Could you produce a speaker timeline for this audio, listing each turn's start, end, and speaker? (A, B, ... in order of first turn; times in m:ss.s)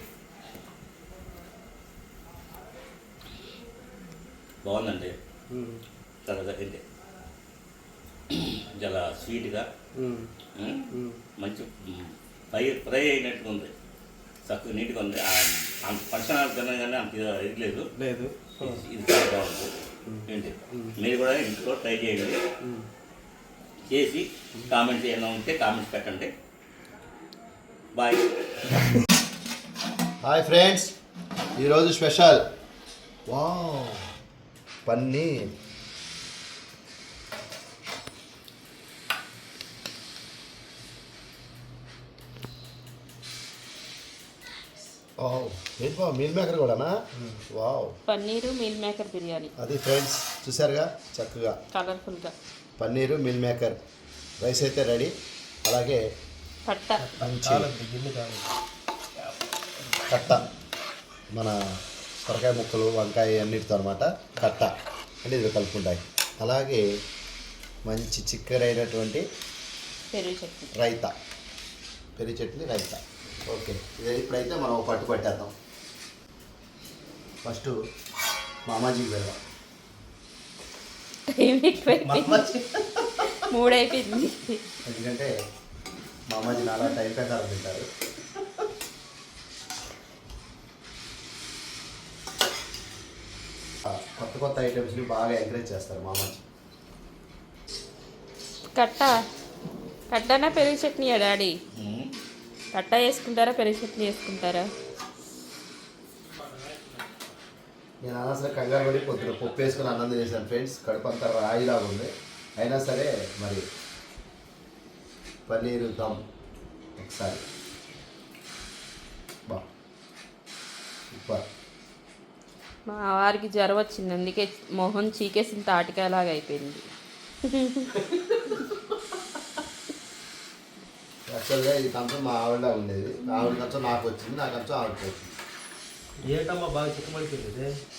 0:04.6-0:05.1 A
0:05.5-0:05.8 B
0:06.2-0:06.8 A
0:08.3-0:09.7 A
0:10.0-0:10.3 B
0:10.6-0:10.9 A
0:10.9-0:11.2 B
0:11.4-0:13.7 A
0:14.4-0:17.8 A
0:18.0-0:18.8 B
0:18.6-0:19.7 A
0:20.0-0:21.0 B
0:20.3-0:22.4 A
0:22.6-0:22.9 B
0:23.9-0:26.3 A
0:27.9-0:28.2 A
0:30.2-0:30.9 C
0:31.6-0:32.5 C
0:33.3-0:34.0 C
0:34.8-0:35.5 C
0:45.2-0:46.9 C
0:47.2-0:47.4 B
0:47.5-0:47.9 C
0:48.1-0:49.5 D
0:49.6-0:51.5 C
0:51.7-0:52.3 D
0:52.8-0:53.8 C
0:54.4-0:55.1 C
0:55.6-0:56.0 C
0:56.6-0:57.1 D
0:57.0-0:58.5 B
0:57.2-0:57.7 C
1:00.1-1:00.4 C
1:02.2-1:04.7 C
1:05.2-1:06.8 C
1:07.8-1:09.2 C
1:10.1-1:10.7 D
1:10.8-1:11.1 C
1:12.2-1:15.5 C
1:17.4-1:17.7 C
1:18.7-1:19.4 C
1:21.3-1:22.5 D
1:21.9-1:23.2 B
1:23.3-1:24.6 D
1:24.8-1:25.3 C
1:26.3-1:27.8 C
1:33.8-1:36.4 C
1:38.7-1:39.1 D
1:40.1-1:41.5 D
1:41.7-1:42.1 A
1:42.7-1:44.6 D
1:48.0-1:53.6 C
1:55.5-1:56.2 C
1:57.0-1:57.4 C
2:01.1-2:01.4 C
2:02.9-2:06.8 D
2:07.5-2:08.0 D
2:08.0-2:08.4 B
2:11.3-2:15.3 C
2:16.3-2:17.7 B